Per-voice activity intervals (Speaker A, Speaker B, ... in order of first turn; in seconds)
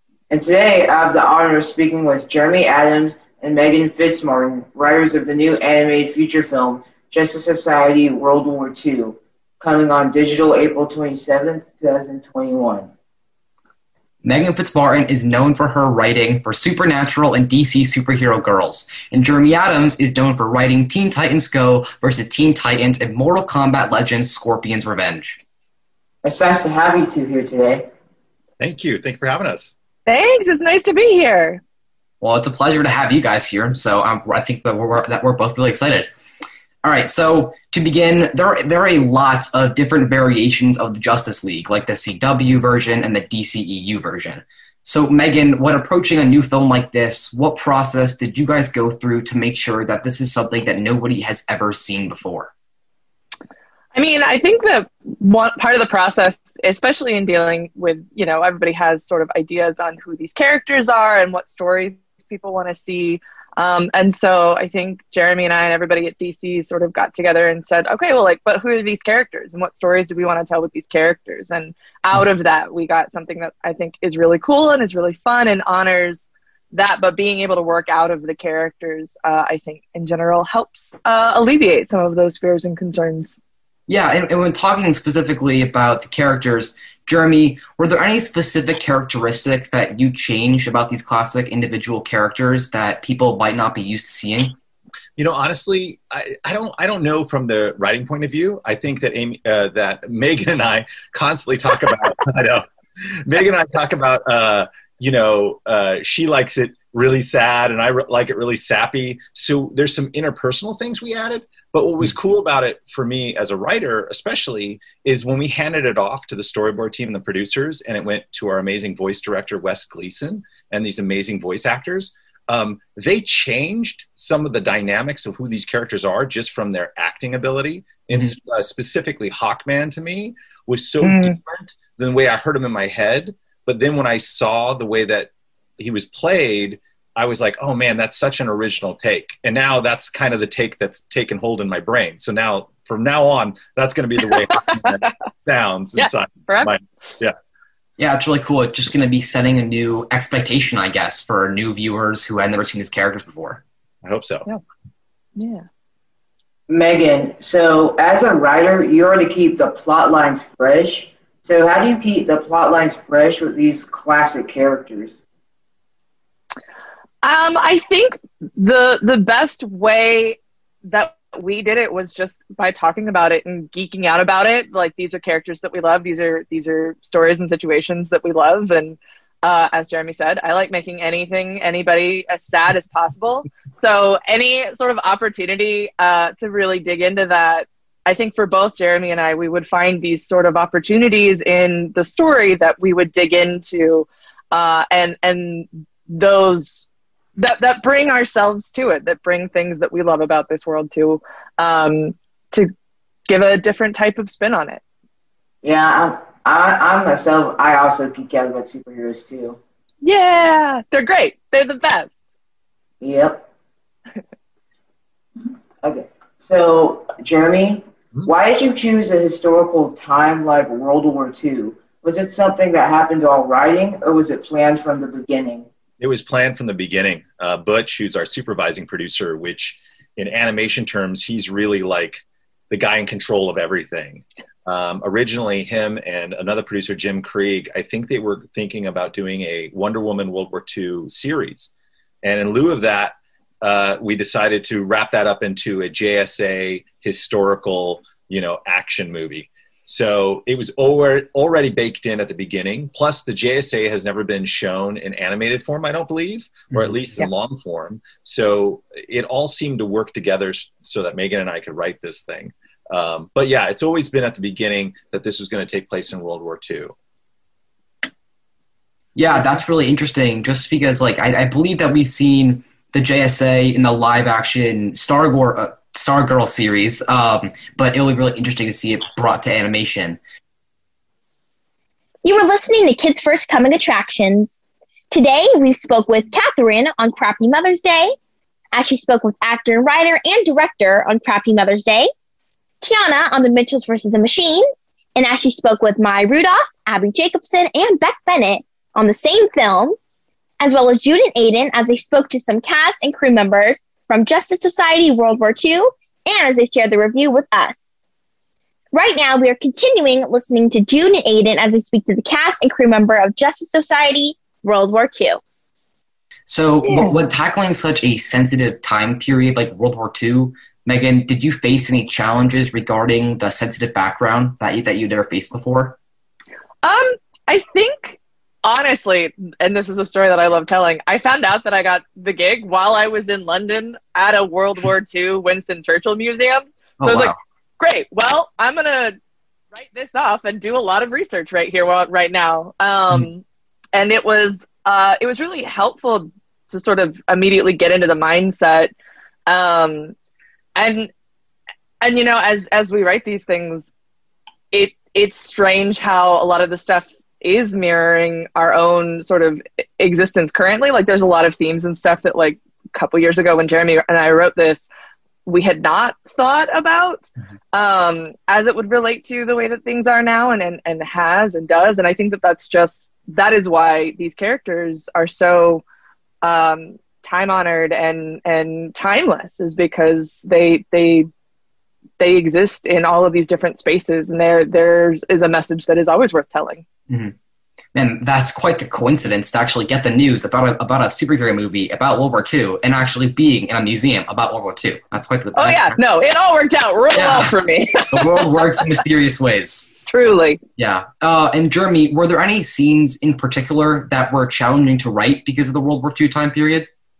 Speaker A: 0.3-12.9, 26.2-27.9, 156.7-165.2, 205.6-209.6, 213.0-213.5, 215.8-225.7
Speaker B: 14.2-25.4, 32.2-36.1, 36.8-52.5, 83.9-94.6, 148.0-153.6, 269.1-280.2, 316.5-326.0, 337.0-337.4, 387.1-387.3, 387.9-396.0, 397.1-397.5, 398.1-400.0, 400.8-406.9
Speaker C: 28.6-29.7, 95.2-102.7, 103.2-147.3, 154.0-154.5, 226.0-241.7, 242.2-266.9
Speaker D: 30.1-31.6, 53.9-83.4, 131.0-131.3, 144.3-145.1, 145.9-146.7, 155.4-155.6, 167.2-202.7, 203.3-204.8, 210.0-212.2, 326.8-339.2, 339.7-348.9, 349.5-350.1, 350.7-351.1, 352.0-353.9, 354.7-364.9, 365.4-375.8, 376.4-381.3, 382.2-386.8, 395.5-398.9, 400.1-400.6
Speaker E: 282.2-284.6, 285.1-288.1, 288.7-292.1, 292.8-299.9, 300.6-307.9, 308.9-315.4